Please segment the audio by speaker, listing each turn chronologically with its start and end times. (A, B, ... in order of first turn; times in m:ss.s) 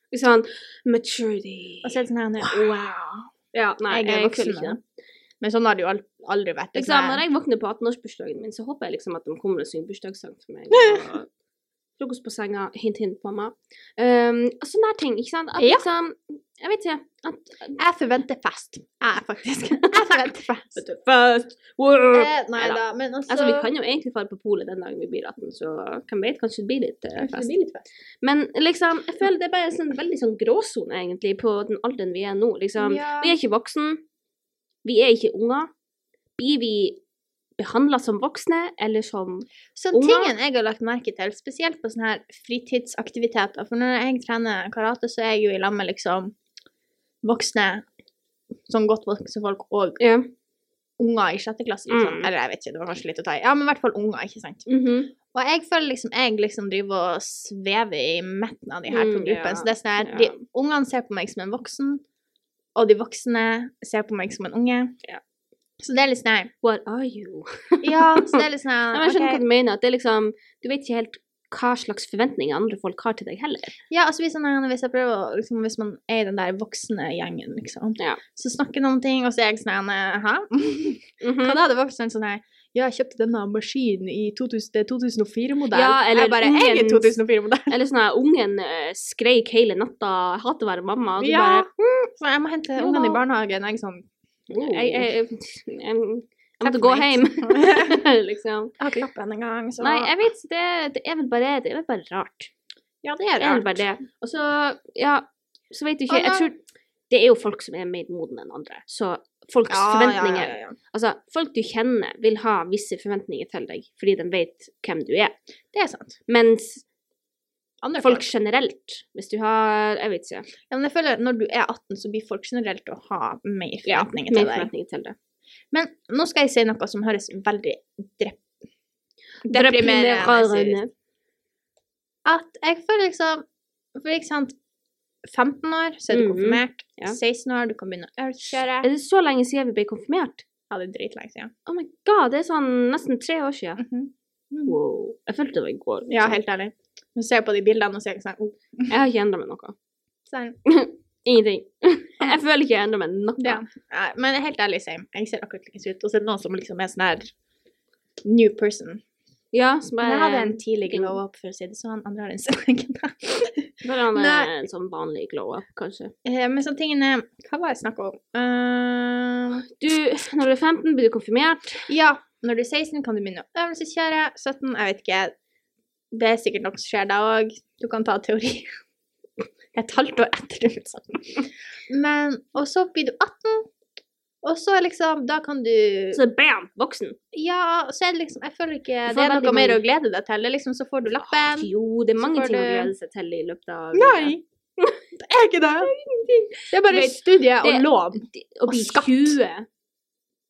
0:00.1-0:02.6 A
0:01.8-0:03.3 B
0:03.5-0:04.8 A
0:03.9-0:04.8 B
0:05.4-0:07.2 B
0:06.8-0:11.3 A
0:10.7-0:11.1 B
0:12.0-0:17.8 A
0:15.6-0:15.8 B
0:17.8-0:20.8 B
0:20.8-0:27.5 A
0:22.1-0:23.7 B
0:27.2-0:27.8 B
0:28.2-0:34.0 A
0:32.8-0:33.3 B
0:34.8-0:35.7 A
0:36.4-0:37.0 A
0:37.6-0:40.3 A
0:39.8-0:46.3 B
0:47.2-0:47.8 B
0:48.7-0:50.0 B
0:50.0-0:50.3 A
0:51.0-0:54.7 B
0:51.9-0:52.3 A
0:54.7-0:55.1 A
0:55.2-1:02.0 B
0:58.9-1:00.4 A
1:02.8-1:04.9 B
1:05.8-1:06.5 B
1:06.6-1:08.4 A
1:07.8-1:09.4 B
1:08.9-1:13.7 A
1:13.9-1:27.7 B
1:21.2-1:21.6 A
1:25.7-1:31.7 A
1:31.2-1:35.1 B
1:32.8-1:33.2 A
1:34.5-1:38.7 A
1:36.6-1:38.0 B
1:38.8-1:40.1 B
1:39.8-1:42.5 A
1:43.0-1:43.7 B
1:43.4-1:46.6 A
1:46.1-1:46.5 B
1:47.1-1:55.4 A
1:49.7-1:50.8 B
1:55.7-1:56.2 B
1:56.3-1:56.8 A
1:57.8-1:58.2 B
1:58.0-2:00.5 A
2:00.7-2:04.7 B
2:03.9-2:05.2 A
2:05.7-2:08.4 B
2:09.4-2:10.8 B
2:09.5-2:10.9 A
2:12.2-2:14.6 B
2:15.3-2:18.9 B
2:16.1-2:17.2 A
2:18.8-2:20.4 A
2:20.7-2:21.5 B
2:21.6-2:23.8 A
2:23.8-2:24.8 B
2:24.6-2:26.4 A
2:26.1-2:28.9 B
2:28.9-2:29.8 A
2:30.3-2:30.6 B
2:30.6-2:33.6 A
2:33.4-2:37.3 B
2:38.2-2:39.0 B
2:39.5-2:41.2 A
2:40.0-2:44.5 B
2:43.8-2:46.1 A
2:46.2-2:49.6 B
2:49.7-2:51.9 A
2:51.9-2:55.3 B
2:56.1-2:58.7 B
2:59.7-3:03.7 B
3:04.4-3:06.2 B
3:06.1-3:07.2 A
3:07.3-3:12.9 B
3:09.1-3:09.8 A
3:11.1-3:15.0 A
3:13.9-3:14.4 B
3:15.2-3:15.9 B
3:15.8-3:19.7 A
3:16.6-3:19.4 B